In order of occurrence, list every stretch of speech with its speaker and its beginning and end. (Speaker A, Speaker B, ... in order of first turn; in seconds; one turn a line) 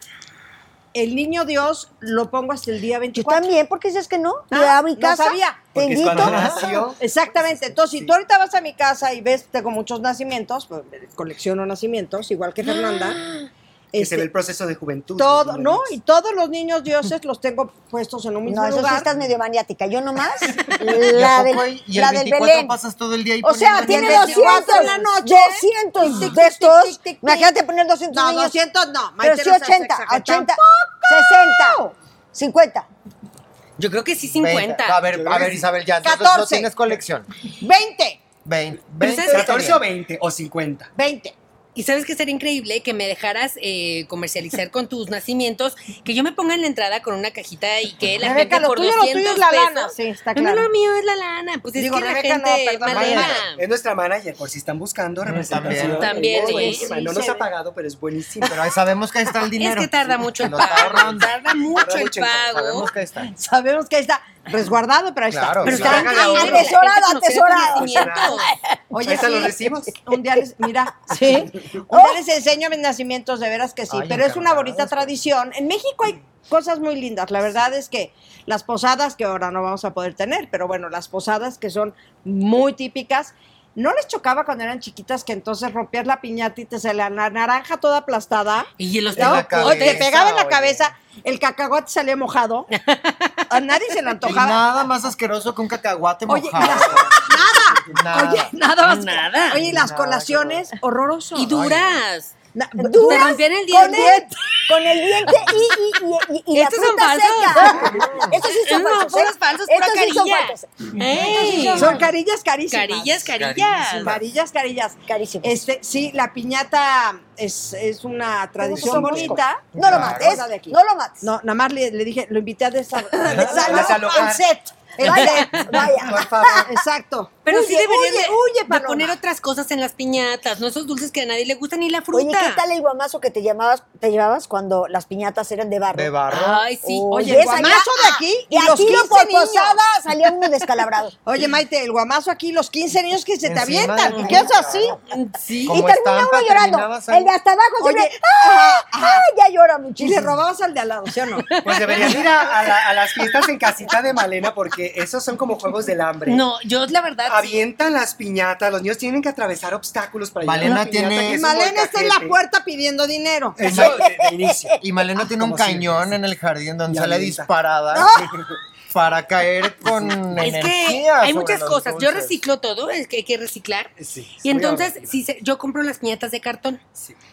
Speaker A: 0.9-3.5
Speaker B: 3.1-6.8
Speaker A: 4.5-6.2
Speaker C: 5.7-7.0
Speaker D: 6.2-6.8
Speaker A: 7.0-13.2
Speaker E: 12.6-13.5
Speaker A: 13.9-14.3
Speaker C: 13.9-15.9
Speaker A: 15.2-19.1
Speaker B: 18.4-22.8
Speaker D: 20.9-24.7
Speaker B: 23.4-28.6
Speaker A: 23.7-27.5
Speaker E: 24.7-24.9
Speaker A: 28.1-31.9
Speaker B: 29.2-32.9
Speaker E: 33.8-35.0
Speaker D: 34.4-37.3
Speaker C: 35.0-35.7
Speaker A: 36.0-36.7
Speaker A: 37.6-38.2
Speaker D: 38.4-39.8
Speaker E: 39.0-39.6
Speaker C: 39.2-40.9
Speaker A: 40.9-41.3
Speaker E: 41.7-53.6
Speaker A: 48.2-50.7
Speaker A: 51.8-53.5
Speaker D: 52.9-53.4
Speaker C: 53.0-58.6
Speaker D: 55.2-56.1
Speaker E: 55.7-56.9
Speaker A: 56.0-57.5
Speaker D: 58.4-61.3
Speaker E: 59.5-62.9
Speaker C: 60.6-62.7
Speaker D: 62.5-63.3
Speaker A: 63.3-66.7
Speaker D: 65.3-66.1
Speaker C: 65.6-66.7
Speaker E: 65.6-68.5
Speaker B: 66.0-68.4
Speaker C: 67.7-68.5
Speaker A: 68.9-92.7
Speaker C: 69.0-70.0
Speaker B: 71.1-72.2
Speaker D: 73.9-75.1
Speaker E: 88.8-90.0
Speaker D: 89.1-90.9
Speaker E: 92.7-94.1
Speaker A: 93.5-94.6
Speaker D: 94.2-97.3
Speaker A: 96.3-101.5
Speaker D: 97.8-98.5
Speaker E: 98.8-99.6
Speaker D: 99.5-100.7
Speaker E: 101.3-102.3
Speaker D: 101.4-102.0
Speaker A: 102.5-104.2
Speaker B: 102.8-112.1
Speaker E: 103.0-104.3
Speaker E: 106.5-112.0
Speaker A: 107.7-108.1
Speaker D: 107.8-108.3
Speaker A: 111.1-113.3
Speaker E: 112.7-114.2
Speaker D: 113.3-114.2
Speaker A: 114.0-125.9
Speaker B: 115.1-115.6
Speaker B: 118.6-121.3
Speaker C: 118.8-119.4
Speaker D: 119.1-120.4
Speaker D: 123.2-123.9
Speaker B: 123.3-124.0
Speaker C: 123.3-124.5
Speaker B: 125.0-126.7
Speaker E: 125.0-125.8
Speaker C: 125.9-126.7
Speaker A: 126.4-129.2
Speaker E: 127.4-132.6
Speaker B: 132.1-136.1
Speaker D: 135.9-136.6
Speaker E: 136.3-137.7
Speaker B: 136.8-141.2
Speaker A: 137.1-139.8
Speaker A: 141.2-145.0
Speaker D: 143.4-145.0
Speaker E: 144.1-144.4
Speaker E: 145.0-145.8
Speaker B: 145.6-150.4
Speaker D: 145.7-147.3
Speaker A: 147.8-149.2
Speaker A: 150.0-152.2
Speaker E: 151.5-152.5
Speaker C: 151.6-156.4
Speaker E: 156.2-157.6
Speaker C: 157.2-162.4
Speaker D: 160.4-161.4
Speaker A: 161.2-163.7
Speaker C: 163.6-166.1
Speaker D: 163.6-164.0
Speaker B: 163.8-164.8
Speaker D: 164.8-168.1
Speaker C: 166.9-167.5
Speaker A: 167.9-168.3
Speaker D: 168.9-172.4
Speaker C: 169.9-170.2
Speaker E: 170.4-176.8
Speaker C: 174.0-175.2